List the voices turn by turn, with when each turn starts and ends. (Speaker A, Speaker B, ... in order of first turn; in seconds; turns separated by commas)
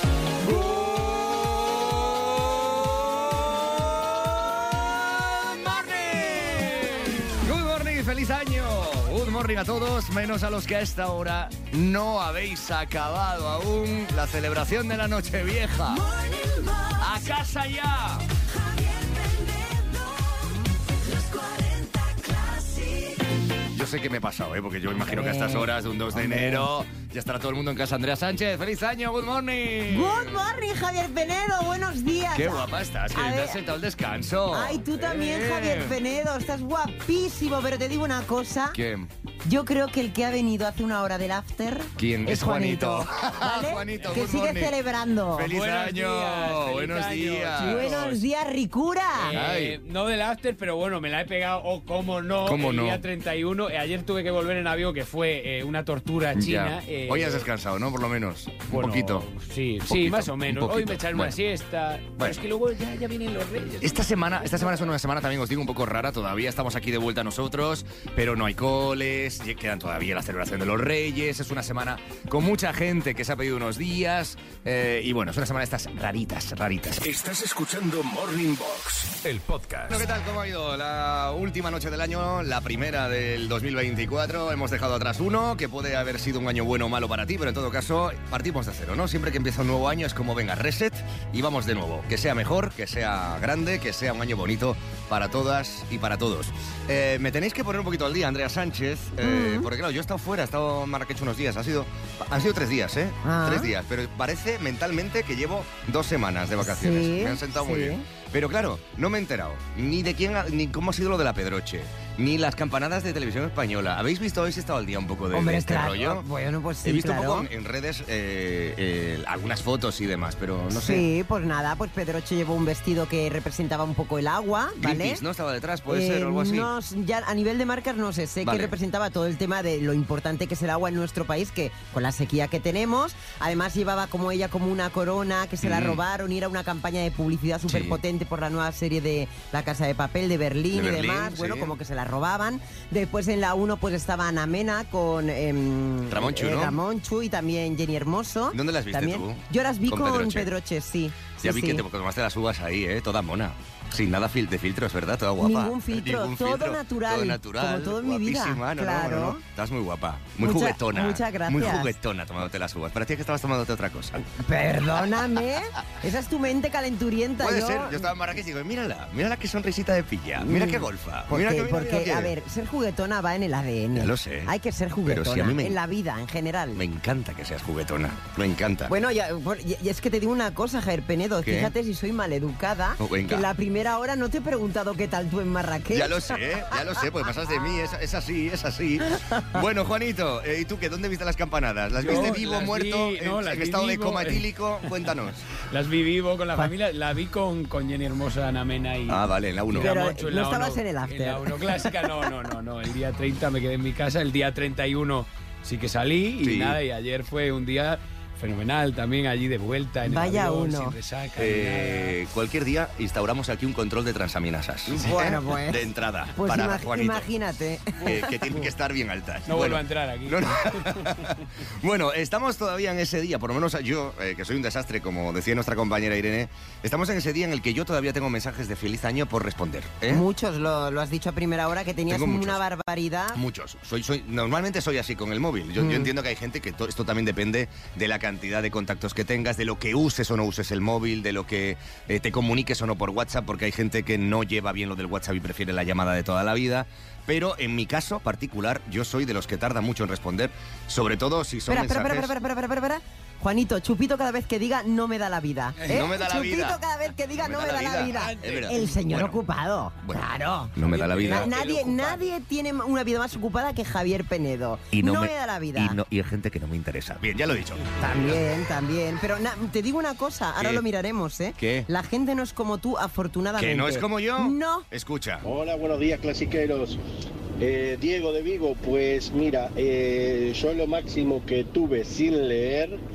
Speaker A: 0.4-16.1, Speaker B: 15.9-17.2, Speaker A: 17.0-18.3, Speaker B: 18.6-23.2, Speaker A: 23.7-30.4, Speaker B: 24.9-26.7, Speaker B: 29.9-33.6, Speaker A: 32.3-36.0, Speaker B: 34.5-38.8, Speaker A: 38.7-39.1, Speaker B: 39.4-45.5, Speaker A: 42.0-44.7, Speaker A: 45.3-48.1, Speaker C: 45.4-48.2, Speaker B: 47.5-49.4, Speaker C: 49.2-57.5, Speaker A: 49.3-49.8, Speaker A: 52.4-53.0, Speaker A: 56.3-59.3, Speaker C: 58.7-64.8, Speaker A: 59.9-61.4, Speaker A: 63.8-77.0, Speaker D: 77.0-80.0, Speaker A: 79.9-116.2, Speaker B: 99.2-99.7, Speaker B: 103.2-103.7, Speaker B: 106.6-108.0, Speaker B: 115.3-117.5, Speaker A: 116.8-121.0, Speaker B: 120.7-125.2, Speaker A: 124.8-126.7, Speaker B: 125.9-151.8, Speaker A: 128.4-128.7, Speaker A: 135.6-136.0, Speaker A: 137.7-138.0, Speaker A: 140.7-141.7, Speaker A: 146.1-146.8, Speaker A: 148.5-150.5, Speaker A: 151.4-164.2, Speaker B: 155.4-159.4, Speaker B: 160.4-161.9, Speaker B: 164.2-168.1, Speaker A: 167.4-172.3, Speaker B: 170.4-176.8, Speaker A: 173.9-174.5, Speaker A: 175.0-175.8, Speaker A: 176.7-178.9, Speaker B: 178.9-186.8, Speaker A: 181.4-181.7, Speaker A: 183.0-183.5, Speaker A: 185.9-195.4, Speaker C: 192.0-194.5, Speaker C: 195.7-212.1, Speaker A: 199.1-199.9, Speaker B: 199.7-202.3, Speaker A: 206.4-206.8, Speaker B: 210.0-211.0, Speaker A: 211.4-217.3, Speaker B: 214.9-218.7, Speaker A: 218.0-230.2, Speaker C: 219.4-221.0, Speaker B: 230.1-233.4, Speaker A: 232.1-232.6, Speaker A: 233.3-252.3, Speaker B: 235.8-236.1, Speaker B: 251.7-266.0, Speaker A: 255.8-256.8, Speaker A: 257.3-259.4, Speaker C: 258.1-258.8, Speaker A: 260.0-261.5, Speaker C: 260.8-262.3, Speaker A: 264.9-268.4, Speaker B: 268.0-274.9, Speaker A: 270.6-270.8, Speaker A: 271.6-271.9, Speaker A: 273.6-275.4, Speaker E: 275.4-277.0, Speaker E: 277.6-283.0